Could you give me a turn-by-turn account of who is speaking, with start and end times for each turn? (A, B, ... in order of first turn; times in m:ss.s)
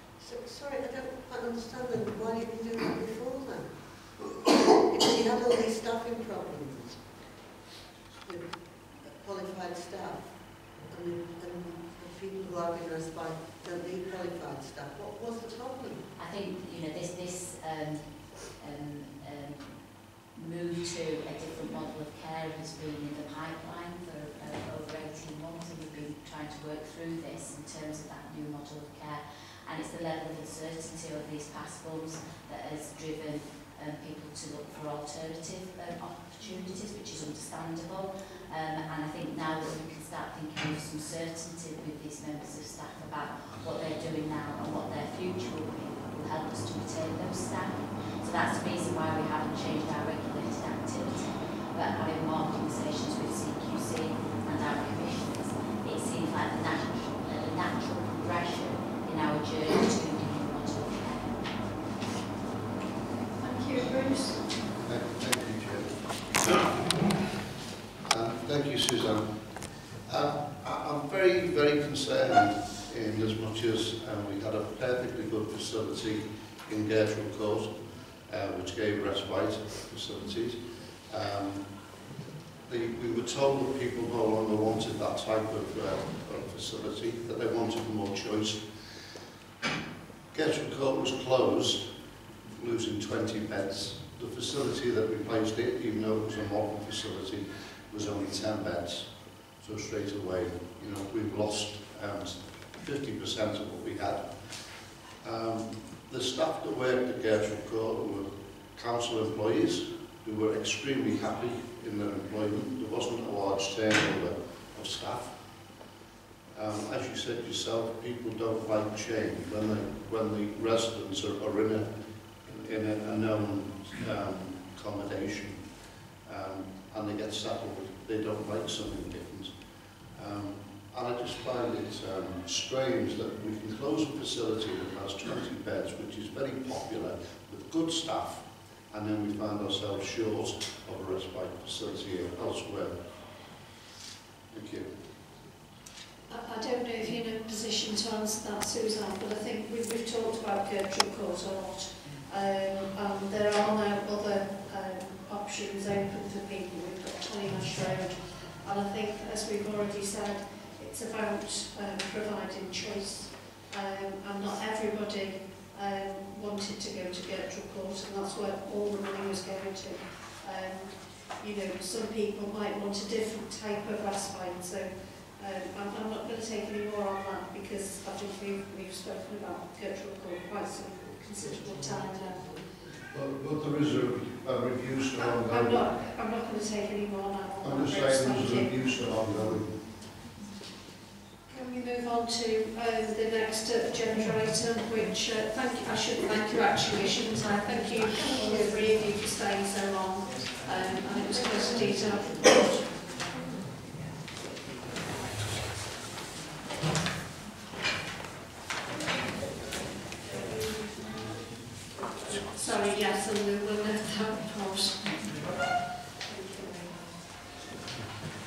0:00.2-0:07.1 A
0:08.2-0:16.1 A
0:16.2-1:01.8 B
1:03.4-1:04.5 C
1:04.8-1:06.6 D
1:08.0-1:21.9 D
1:22.7-1:29.1 D
1:30.3-1:55.8 D
1:56.5-2:23.4 D
2:24.5-2:24.9 D
2:26.3-3:02.6 C
3:01.4-3:02.8 A
3:03.1-3:05.9 D
3:05.2-3:09.1 C
3:07.6-3:09.9 D
3:11.5-3:23.0 C
3:18.3-3:18.8 A
3:32.5-3:35.5 C
3:36.2-3:36.9 C